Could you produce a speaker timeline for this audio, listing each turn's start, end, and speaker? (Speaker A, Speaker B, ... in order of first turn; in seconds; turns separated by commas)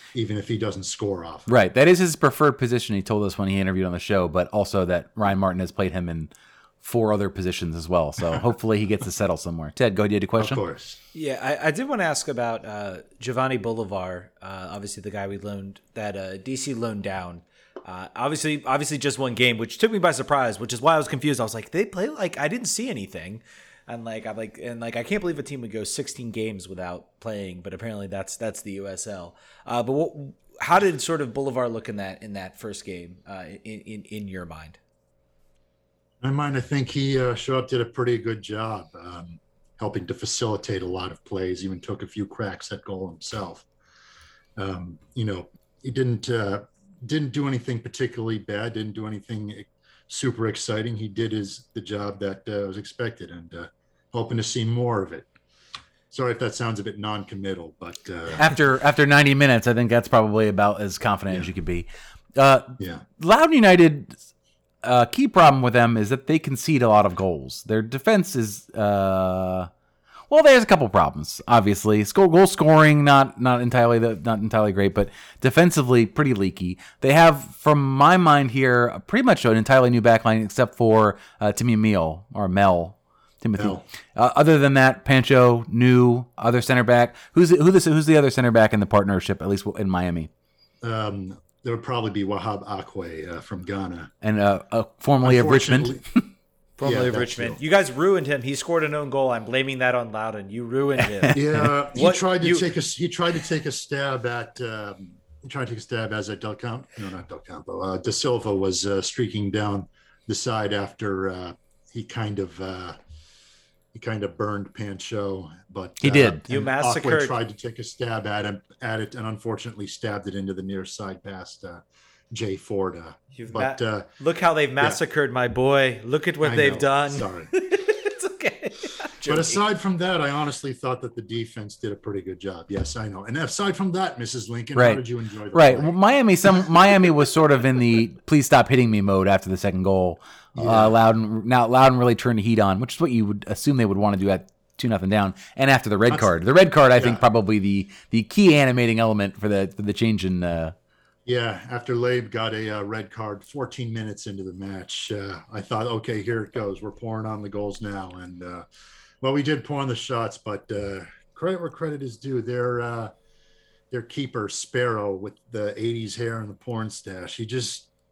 Speaker A: 0.1-1.5, Speaker B: 1.5-10.6, Speaker A: 10.4-11.0, Speaker C: 11.1-34.8, Speaker A: 36.2-43.7, Speaker A: 44.6-55.3, Speaker A: 56.1-58.6, Speaker B: 58.3-64.2, Speaker A: 62.8-63.0, Speaker B: 64.8-69.7, Speaker B: 70.3-90.3, Speaker A: 83.6-83.8, Speaker A: 90.8-94.1, Speaker B: 94.2-96.3, Speaker A: 95.2-96.0, Speaker C: 96.8-101.4, Speaker A: 96.8-97.6, Speaker B: 101.1-101.7, Speaker A: 101.3-113.0, Speaker C: 101.9-102.7, Speaker A: 113.9-124.1, Speaker B: 116.0-116.4, Speaker C: 116.5-117.3, Speaker C: 123.4-129.6, Speaker A: 126.4-127.5, Speaker A: 129.2-136.0, Speaker B: 134.8-150.8, Speaker A: 140.6-140.9, Speaker A: 147.0-147.2, Speaker A: 151.3-158.7, Speaker A: 159.2-163.1, Speaker A: 163.9-167.9